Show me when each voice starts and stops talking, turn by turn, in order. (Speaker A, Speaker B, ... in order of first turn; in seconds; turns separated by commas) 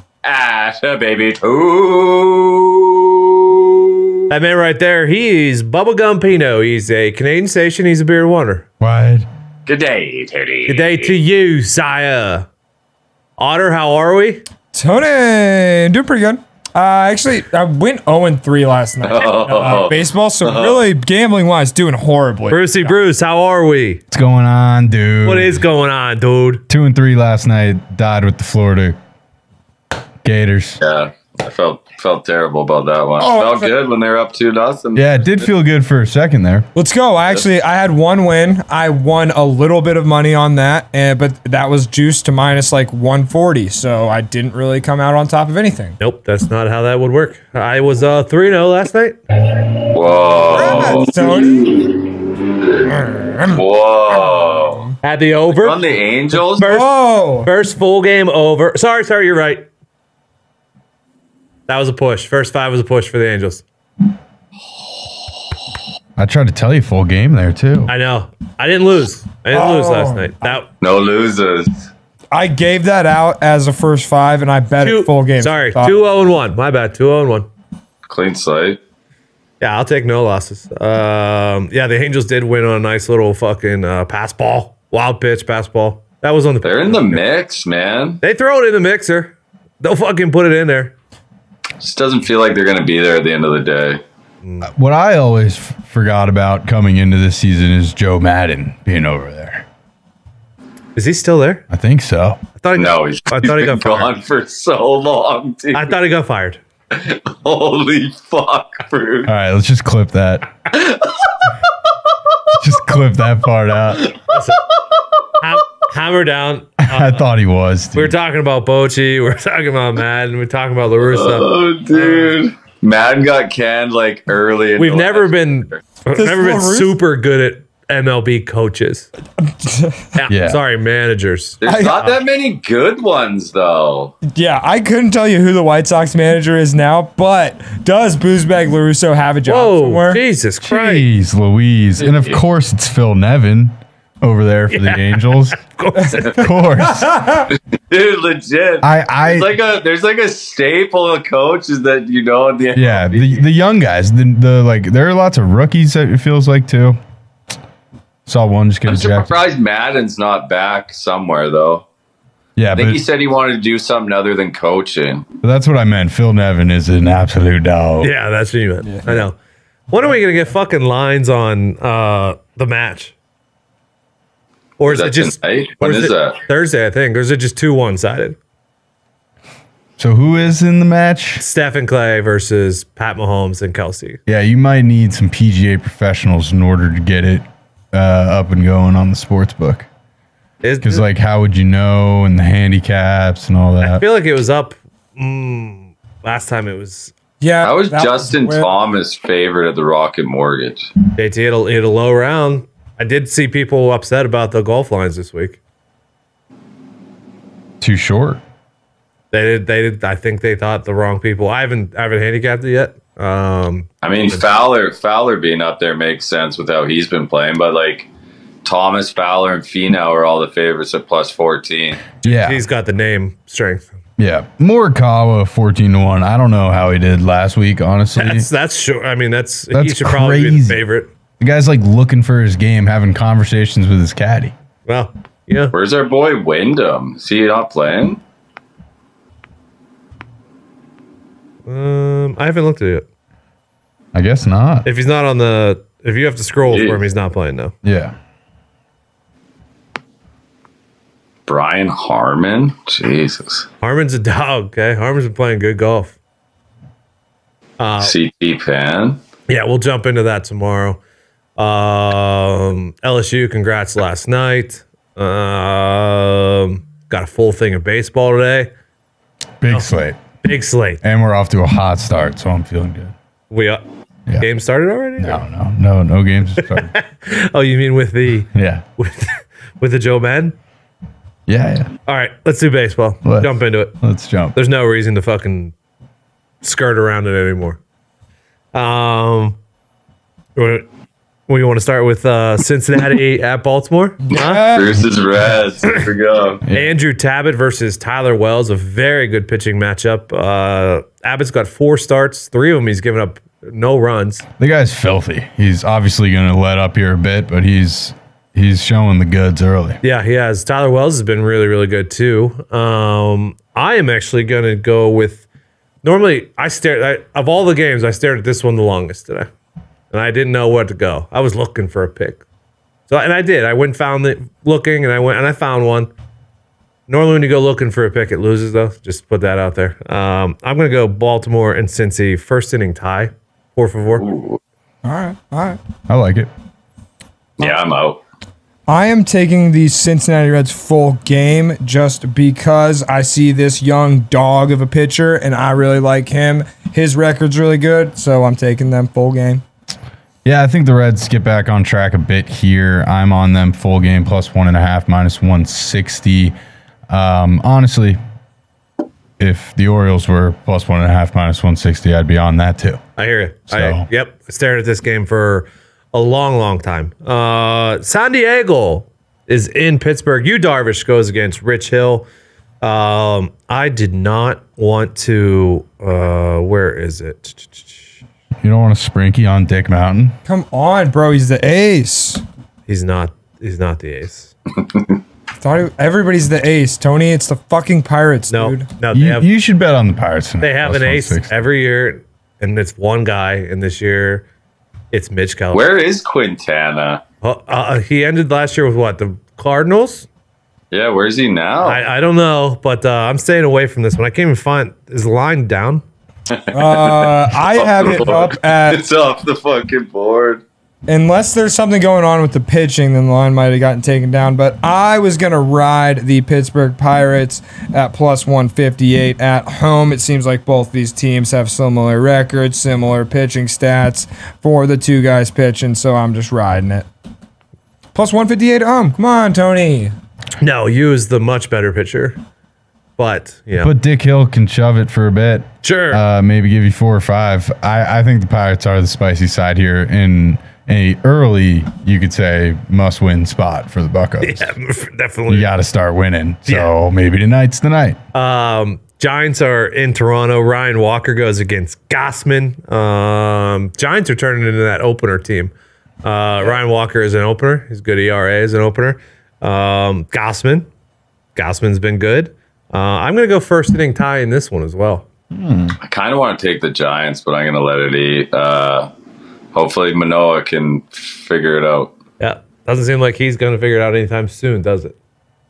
Speaker A: 0.2-4.0, Speaker B: 4.3-8.6, Speaker C: 8.8-9.3, Speaker A: 9.7-11.2, Speaker B: 10.7-12.5, Speaker B: 13.4-14.4, Speaker D: 14.7-22.9, Speaker A: 19.0-20.9, Speaker B: 22.5-24.0, Speaker C: 24.1-25.6, Speaker B: 25.2-26.6, Speaker C: 26.7-29.0, Speaker C: 30.2-30.8, Speaker A: 30.8-35.3, Speaker D: 33.2-33.7, Speaker C: 35.0-36.7, Speaker D: 36.8-46.0, Speaker B: 46.0-49.2, Speaker A: 49.9-51.9, Speaker D: 50.4-51.8, Speaker D: 52.9-53.6, Speaker A: 53.5-54.9, Speaker D: 54.2-54.8, Speaker B: 55.0-59.7, Speaker A: 55.5-56.7, Speaker D: 56.5-57.5, Speaker B: 61.7-63.6, Speaker C: 66.2-67.9, Speaker B: 67.9-70.7, Speaker D: 69.5-70.3, Speaker A: 70.8-71.9, Speaker D: 72.3-76.0, Speaker B: 74.8-77.5, Speaker A: 78.1-78.8, Speaker B: 79.6-87.2, Speaker A: 86.6-88.2, Speaker B: 88.2-91.0, Speaker A: 91.8-94.0, Speaker C: 94.6-99.7, Speaker B: 101.0-101.6, Speaker C: 101.7-102.4, Speaker B: 102.6-104.1, Speaker A: 102.8-106.0, Speaker B: 105.7-106.6, Speaker A: 106.9-109.3, Speaker C: 109.3-110.5, Speaker A: 110.7-111.6, Speaker C: 112.6-114.1, Speaker B: 114.3-114.6, Speaker B: 115.4-117.2, Speaker C: 116.8-118.2, Speaker B: 117.9-122.4, Speaker A: 121.0-125.6, Speaker B: 124.8-129.1, Speaker D: 126.1-127.0, Speaker D: 129.4-130.0, Speaker B: 130.2-132.2, Speaker C: 130.3-130.6, Speaker A: 131.6-134.1, Speaker D: 131.7-132.0, Speaker D: 134.3-140.2, Speaker B: 139.5-141.1, Speaker C: 140.6-145.6, Speaker A: 142.0-142.4, Speaker B: 144.7-146.4, Speaker C: 146.2-147.3, Speaker A: 146.2-146.5, Speaker D: 147.1-147.4, Speaker A: 147.5-153.4, Speaker C: 148.8-149.5, Speaker C: 152.8-157.0, Speaker C: 158.3-159.3, Speaker A: 158.9-161.8, Speaker C: 162.6-163.0, Speaker A: 162.7-165.3, Speaker C: 165.4-168.1, Speaker B: 168.0-169.4, Speaker B: 169.9-173.1, Speaker B: 174.8-178.4, Speaker A: 174.8-176.4, Speaker C: 180.0-181.4, Speaker B: 181.4-184.2, Speaker C: 184.3-189.9, Speaker B: 190.6-191.0, Speaker C: 190.8-194.0, Speaker B: 193.8-197.1, Speaker D: 197.4-198.7, Speaker A: 197.6-200.9, Speaker B: 201.2-205.6, Speaker C: 207.8-208.4, Speaker B: 209.3-214.4, Speaker A: 214.0-218.1, Speaker A: 218.7-222.1, Speaker B: 222.2-223.9, Speaker C: 222.2-222.6, Speaker C: 224.2-228.5, Speaker B: 228.2-231.1, Speaker C: 229.7-230.8, Speaker C: 231.4-234.5, Speaker B: 234.8-235.8, Speaker A: 235.7-238.2, Speaker B: 241.7-243.1, Speaker C: 244.1-244.9, Speaker B: 244.8-247.7, Speaker A: 246.7-247.0, Speaker C: 247.8-248.2, Speaker A: 251.5-253.7, Speaker B: 253.8-256.1, Speaker B: 257.8-258.2, Speaker A: 258.0-259.2, Speaker B: 259.5-261.0, Speaker B: 261.6-268.7, Speaker C: 269.6-270.2, Speaker B: 270.4-271.0, Speaker C: 271.0-273.1, Speaker B: 273.5-273.8, Speaker B: 274.4-275.4, Speaker C: 275.2-276.9, Speaker B: 276.6-280.6, Speaker C: 278.5-278.8, Speaker C: 281.5-281.9, Speaker B: 282.1-283.9, Speaker C: 283.2-284.6, Speaker B: 284.6-285.7, Speaker B: 286.6-287.8, Speaker B: 288.7-289.6, Speaker B: 290.6-290.9, Speaker B: 291.5-294.7, Speaker D: 294.2-295.0, Speaker A: 294.3-296.6, Speaker B: 296.7-304.4, Speaker C: 304.6-310.0, Speaker B: 310.0-315.4, Speaker B: 316.0-319.5, Speaker B: 320.1-322.4, Speaker B: 323.1-326.1, Speaker B: 327.1-334.2, Speaker A: 334.2-334.6, Speaker D: 335.0-335.8, Speaker C: 336.1-336.5, Speaker A: 337.6-338.2, Speaker D: 338.9-349.6, Speaker C: 350.4-356.6, Speaker C: 357.1-358.2, Speaker C: 359.4-363.0, Speaker B: 363.2-372.3, Speaker C: 363.7-364.1, Speaker B: 372.8-378.1, Speaker C: 378.6-380.4, Speaker D: 380.5-382.4, Speaker B: 382.9-384.5, Speaker D: 385.6-388.9, Speaker B: 388.5-389.5, Speaker C: 389.1-391.5, Speaker B: 390.6-394.4, Speaker B: 395.1-395.9, Speaker A: 395.7-397.2, Speaker B: 397.4-400.3, Speaker A: 400.9-402.0, Speaker B: 401.8-406.0, Speaker A: 406.5-410.6, Speaker D: 406.7-409.1, Speaker D: 411.1-427.1, Speaker D: 428.1-430.1, Speaker B: 430.6-432.4, Speaker B: 433.2-433.9, Speaker C: 433.8-444.7, Speaker B: 435.8-436.2, Speaker B: 444.4-445.7, Speaker C: 445.5-448.2, Speaker B: 446.7-446.9, Speaker B: 448.3-455.7, Speaker B: 456.2-460.9, Speaker B: 461.6-465.2, Speaker C: 465.5-466.0, Speaker A: 466.0-469.1, Speaker A: 469.7-472.1, Speaker B: 472.4-475.1